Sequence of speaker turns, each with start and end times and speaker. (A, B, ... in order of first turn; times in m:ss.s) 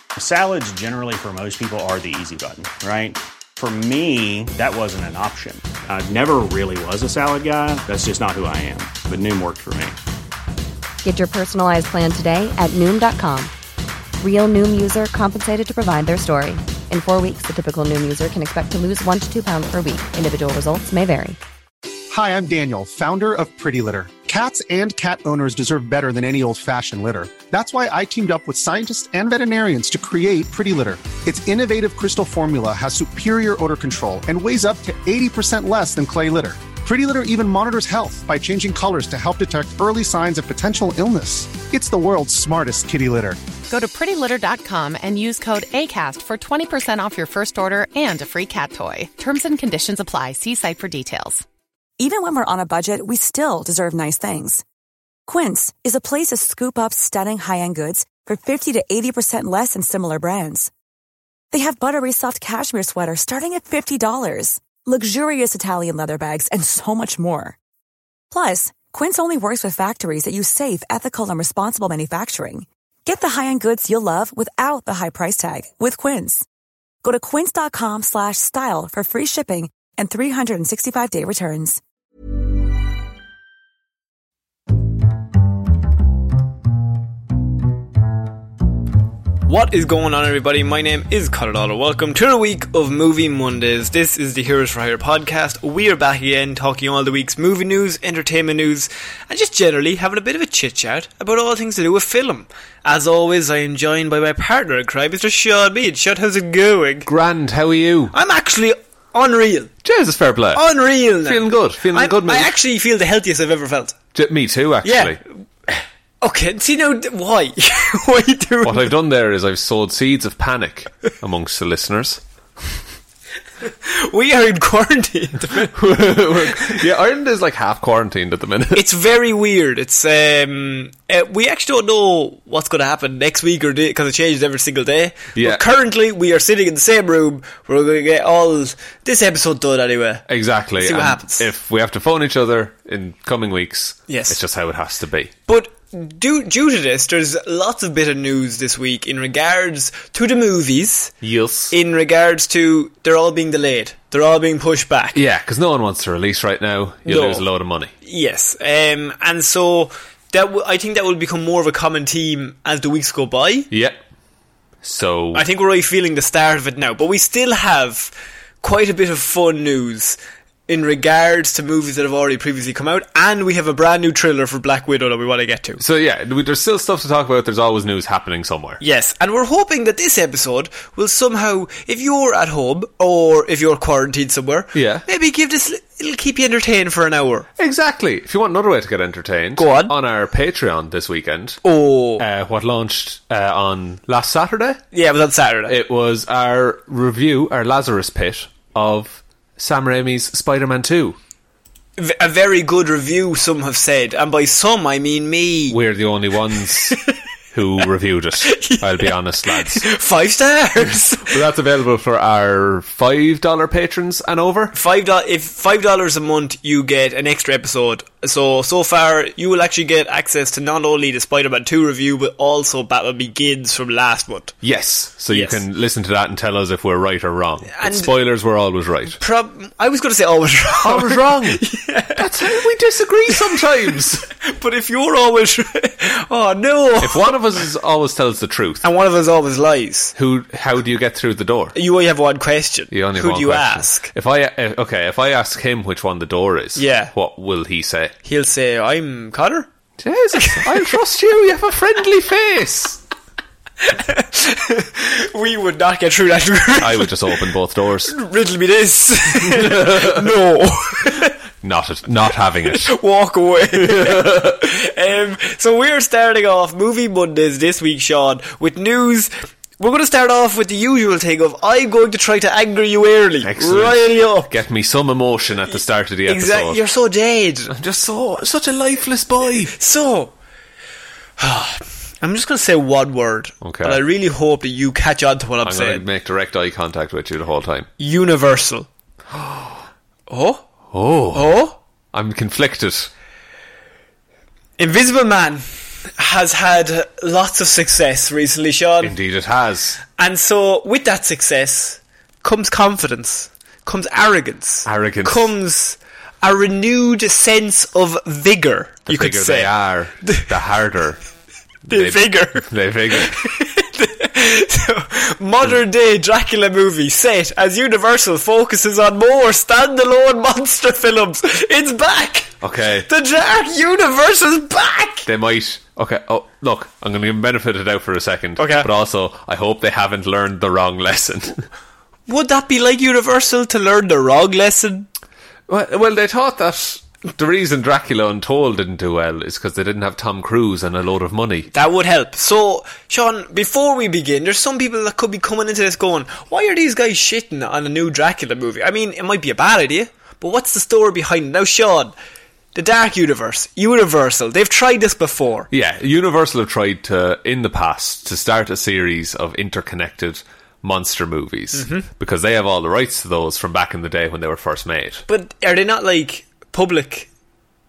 0:00.2-0:10.0 A
0:11.0-0:13.5 B
0:14.2-0:21.4 B
0:22.1-0:43.4 C
0:43.7-0:51.4 D
0:52.0-0:54.6 E
0:55.3-1:00.7 E
1:01.5-1:07.6 E
1:08.3-1:16.5 E
1:17.0-1:21.8 E
1:29.5-1:47.1 F
1:47.1-1:48.2 G
1:48.1-1:49.7 F
1:49.8-1:50.6 G
1:50.5-1:54.0 F
1:51.2-1:52.6 G
1:54.1-1:55.2 G
1:54.8-1:55.2 F
1:55.7-1:58.9 F
1:58.6-2:02.2 G
2:03.7-2:05.8 F
2:05.7-2:08.8 G
2:08.7-2:20.2 F
2:15.4-2:15.6 G
2:20.3-2:25.3 G
2:20.8-2:21.5 F
2:24.1-2:24.4 F
2:25.5-2:31.1 F
2:31.2-2:31.7 G
2:31.7-2:35.2 F
2:35.1-2:37.9 G
2:37.1-2:37.5 F
2:38.0-2:43.7 F
2:43.7-2:44.0 G
2:44.8-2:45.4 G
2:45.3-2:55.8 F
2:55.8-2:58.8 G
2:58.8-3:07.5 F
3:04.7-3:05.0 G
3:07.6-3:11.6 G
3:09.6-3:09.9 F
3:11.6-3:12.2 F
3:12.2-3:14.8 G
3:14.9-3:15.8 F
3:15.7-3:21.2 G
3:22.0-3:25.8 F
3:25.7-3:27.0 G
3:27.5-3:29.9 G
3:28.4-3:31.4 F
3:31.2-3:34.8 G
3:34.7-3:44.5 F
3:44.6-3:49.2 G
3:45.3-3:45.6 F
3:47.7-3:48.1 F
3:49.2-3:52.6 F
3:50.8-3:51.6 G
3:52.2-3:54.2 G
3:53.3-3:57.4 F
3:57.0-3:58.8 G
3:58.8-4:00.2 F
4:00.2-4:01.8 G
4:01.8-4:04.1 F
4:02.9-4:08.2 G
4:06.8-4:07.1 F
4:08.2-4:09.7 F
4:10.0-4:13.0 G
4:10.4-4:10.8 F
4:13.8-4:17.3 F
4:16.8-4:18.2 G
4:18.1-4:21.4 F
4:19.5-4:20.3 G
4:21.6-4:22.9 G
4:22.7-4:34.5 F
4:23.7-4:24.6 G
4:33.4-4:36.8 G
4:36.3-4:37.7 F
4:37.7-4:39.8 G
4:39.7-4:40.3 F
4:41.4-4:46.0 F
4:43.6-4:44.0 G
4:45.6-4:47.9 G
4:48.0-4:48.9 F
4:49.3-4:49.7 G
4:50.3-4:50.6 F
4:50.9-4:51.5 G
4:51.3-4:51.8 F
4:52.1-4:53.1 G
4:54.8-4:59.2 F
4:59.0-5:00.0 G
5:00.2-5:09.7 F
5:04.8-5:05.5 G
5:09.1-5:11.2 G
5:10.2-5:10.5 F
5:11.9-5:13.4 G
5:11.9-5:22.5 F
5:22.6-5:23.1 G
5:23.1-5:25.3 F
5:25.3-5:31.6 G
5:28.6-5:28.9 F
5:32.3-5:35.1 F
5:35.7-5:41.7 G
5:41.7-5:52.1 F
5:52.8-5:55.7 F
5:55.7-6:05.2 G
6:01.7-6:02.1 F
6:05.3-6:07.3 F